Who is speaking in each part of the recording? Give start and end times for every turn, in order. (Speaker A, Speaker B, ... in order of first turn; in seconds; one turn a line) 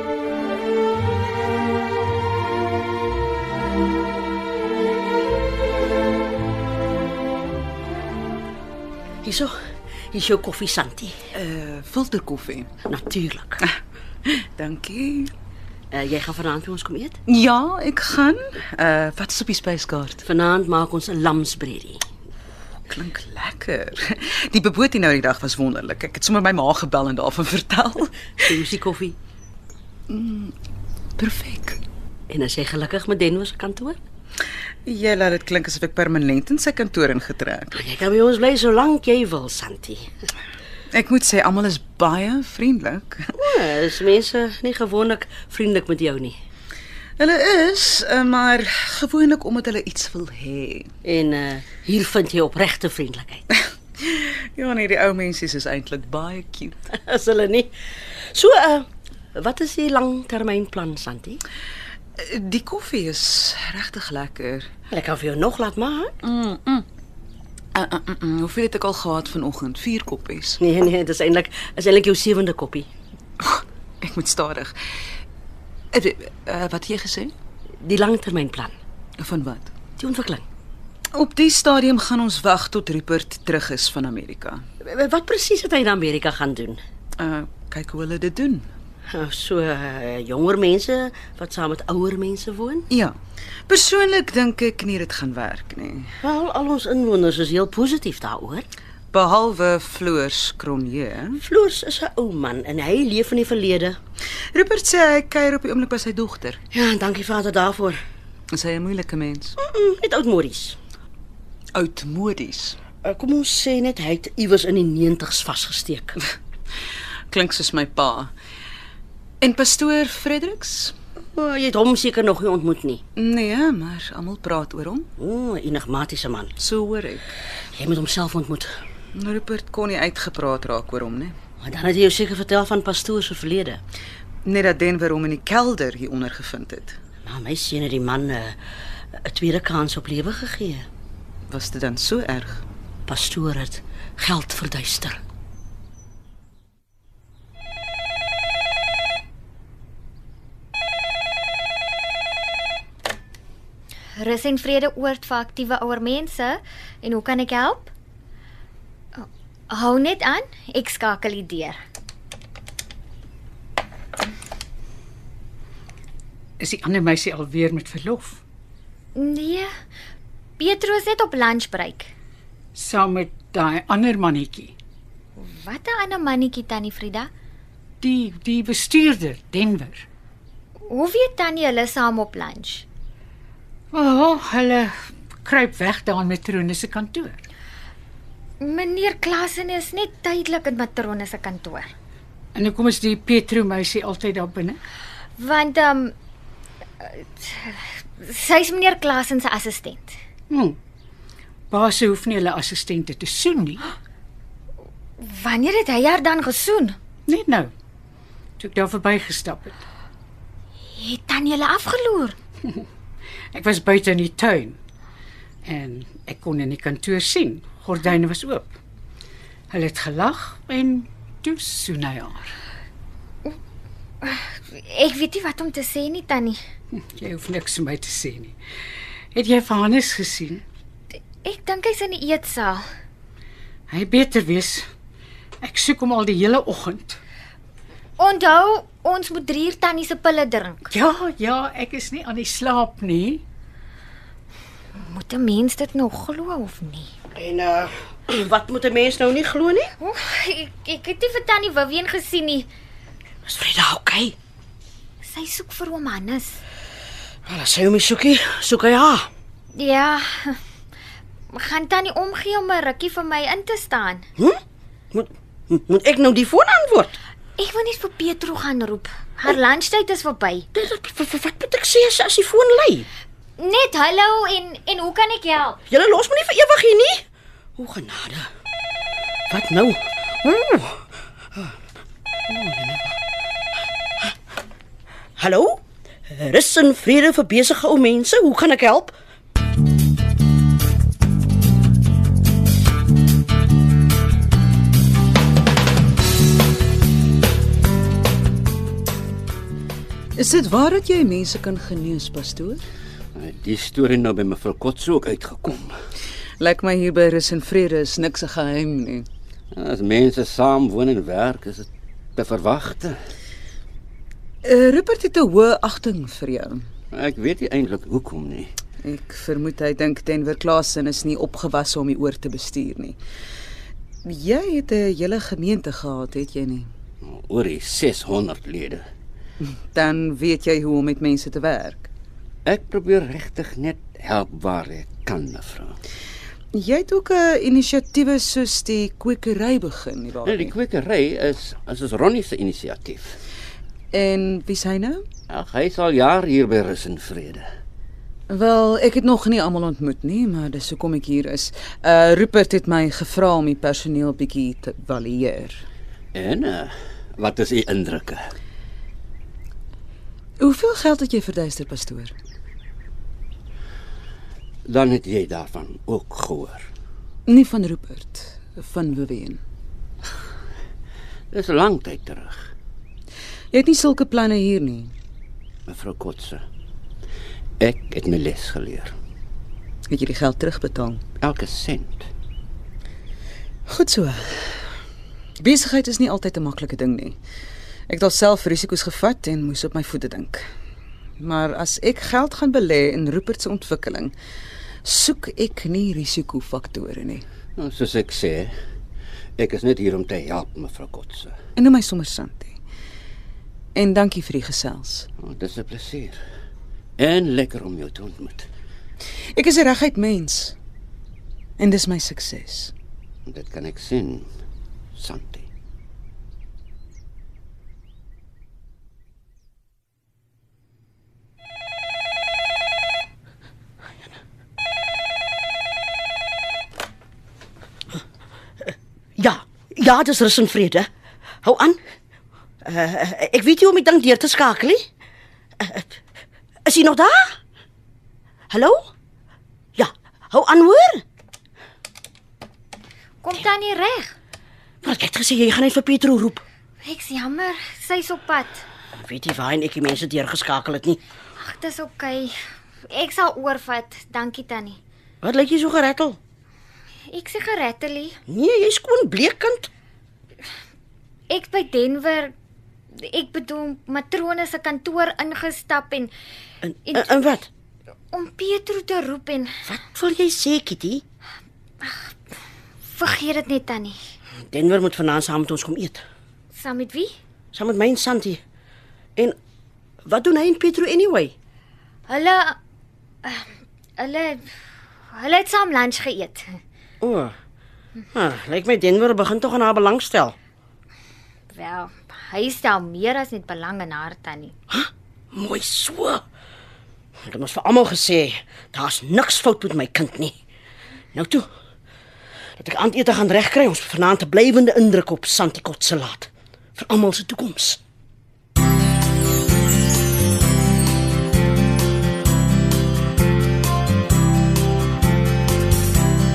Speaker A: 9.2-9.6
Speaker A: 10.1-11.2
Speaker B: 11.3-12.7
Speaker A: 12.9-13.6
Speaker B: 14.3-15.3
Speaker A: 15.9-17.2
Speaker B: 17.3-20.2
Speaker A: 20.2-22.0
Speaker B: 22.9-28.1
Speaker A: 28.4-29.1
Speaker B: 30.1-30.5
Speaker B: 31.2-31.8
Speaker A: 32.3-34.0
Speaker B: 34.9-37.8
Speaker A: 37.7-40.0
Speaker B: 40.9-43.4
Speaker A: 43.4-46.4
Speaker B: 47.2-50.9
Speaker A: 51.0-53.5
Speaker B: 54.0-56.9
Speaker A: 56.9-57.7
Speaker A: 58.3-61.4
Speaker B: 62.2-64.7
Speaker A: 64.9-66.1
Speaker B: 66.2-66.8
Speaker B: 67.7-70.6
Speaker A: 70.6-72.9
Speaker B: 73.4-74.7
Speaker B: 75.9-77.3
Speaker A: 77.8-78.8
Speaker B: 79.2-79.7
Speaker A: 80.0-80.4
Speaker B: 81.1-84.6
Speaker A: 84.8-86.8
Speaker B: 87.2-88.7
Speaker A: 89.1-92.9
Speaker B: 92.9-93.2
Speaker B: 93.7-96.1
Speaker A: 96.2-98.7
Speaker B: 99.1-101.4
Speaker A: 101.4-104.0
Speaker B: 104.5-106.6
Speaker A: 106.7-108.0
Speaker B: 108.5-109.5
Speaker A: 109.6-110.8
Speaker B: 111.7-112.8
Speaker A: 113.0-116.2
Speaker B: 117.3-118.3
Speaker B: 119.4-120.9
Speaker A: 121.3-123.0
Speaker B: 123.2-125.1
Speaker A: 125.2-126.5
Speaker B: 126.6-127.3
Speaker A: 127.7-128.7
Speaker B: 129.1-131.3
Speaker A: 131.6-133.8
Speaker B: 134.4-137.0
Speaker A: 137.2-138.6
Speaker A: 139.2-140.9
Speaker B: 141.5-142.6
Speaker A: 143.1-145.2
Speaker C: 154.2-157.9
Speaker C: 159.1-161.8
Speaker D: 166.6-168.4
Speaker C: 169.1-169.7
Speaker C: 170.6-172.1
Speaker D: 172.7-174.7
Speaker C: 175.3-177.3
Speaker D: 178.0-180.0
Speaker C: 180.9-182.8
Speaker D: 183.9-187.4
Speaker C: 188.6-191.9
Speaker D: 192.5-194.8
Speaker C: 195.4-196.1
Speaker C: 197.0-200.2
Speaker D: 200.5-200.8
Speaker D: 201.7-203.8
Speaker C: 205.2-207.0
Speaker D: 207.3-207.7
Speaker D: 208.6-209.8
Speaker C: 210.9-212.3
Speaker D: 213.5-214.8
Speaker D: 215.6-218.7
Speaker D: 219.7-222.5
Speaker C: 224.2-226.6
Speaker D: 226.9-228.6
Speaker D: 229.3-230.6
Speaker C: 231.4-232.8
Speaker D: 233.9-234.9
Speaker D: 235.6-237.2
Speaker C: 238.2-240.9
Speaker D: 240.9-243.4
Speaker C: 244.9-247.1
Speaker A: 247.3-249.9
Speaker C: 250.0-252.7
Speaker A: 253.4-254.3
Speaker C: 255.2-256.6
Speaker A: 257.4-259.3
Speaker C: 259.7-260.6
Speaker C: 261.5-264.3
Speaker A: 265.1-267.1
Speaker C: 267.6-270.7
Speaker A: 270.7-273.1
Speaker C: 273.6-275.8
Speaker A: 275.9-277.2
Speaker A: 277.8-278.5
Speaker A: 279.5-281.0
Speaker A: 282.5-283.2
Speaker A: 285.4-289.1
Speaker B: 300.4-302.8
Speaker E: 303.3-305.9
Speaker B: 306.6-309.3
Speaker E: 309.7-313.2
Speaker B: 314.6-316.9
Speaker E: 317.1-318.7
Speaker B: 319.0-323.2
Speaker B: 324.2-326.9
Speaker E: 327.2-329.0
Speaker B: 329.6-332.1
Speaker E: 332.6-336.0
Speaker B: 336.7-340.7
Speaker E: 340.4-343.3
Speaker B: 344.1-345.2
Speaker E: 345.5-347.6
Speaker B: 348.5-355.8
Speaker E: 356.3-358.4
Speaker B: 360.6-362.3
Speaker E: 364.9-366.9
Speaker B: 367.5-369.6
Speaker E: 371.5-372.6
Speaker B: 373.7-375.1
Speaker E: 375.9-376.6
Speaker E: 377.8-379.1
Speaker B: 380.1-381.2
Speaker E: 381.4-382.3
Speaker B: 383.9-384.8
Speaker B: 385.6-387.4
Speaker B: 388.1-390.6
Speaker B: 391.4-394.3
Speaker B: 395.0-397.4
Speaker E: 397.8-398.7
Speaker E: 399.6-401.5
Speaker B: 401.8-402.8
Speaker B: 403.9-405.3
Speaker E: 405.4-406.4
Speaker E: 407.2-408.7
Speaker B: 409.6-410.8
Speaker B: 411.8-412.9
Speaker E: 413.5-414.5
Speaker E: 415.1-415.6
Speaker A: 429.4-431.1
Speaker A: 431.6-432.0
Speaker A: 432.8-435.1
Speaker A: 435.8-436.2
Speaker A: 436.8-437.6
Speaker A: 438.7-439.0
Speaker A: 439.9-441.2
Speaker C: 443.4-444.3
Speaker A: 445.0-446.6
Speaker C: 447.0-448.8
Speaker A: 449.1-451.2
Speaker C: 451.6-452.5
Speaker C: 453.1-455.0
Speaker A: 455.4-456.4
Speaker C: 457.3-458.4
Speaker A: 458.5-459.9
Speaker C: 461.5-462.5
Speaker C: 463.1-466.3
Speaker A: 466.9-467.7
Speaker C: 467.1-467.4
Speaker C: 468.3-469.8
Speaker A: 469.9-471.2
Speaker C: 472.0-472.3
Speaker C: 473.0-474.2
Speaker A: 474.7-476.2
Speaker C: 476.7-477.3
Speaker A: 477.7-478.6
Speaker A: 480.2-481.5
Speaker C: 482.3-482.8
Speaker C: 483.4-484.7
Speaker C: 485.3-486.8
Speaker A: 487.2-487.5
Speaker A: 488.3-490.5
Speaker C: 491.7-494.7
Speaker A: 494.9-496.4
Speaker A: 497.4-500.6
Speaker A: 501.3-501.7
Speaker A: 502.8-508.0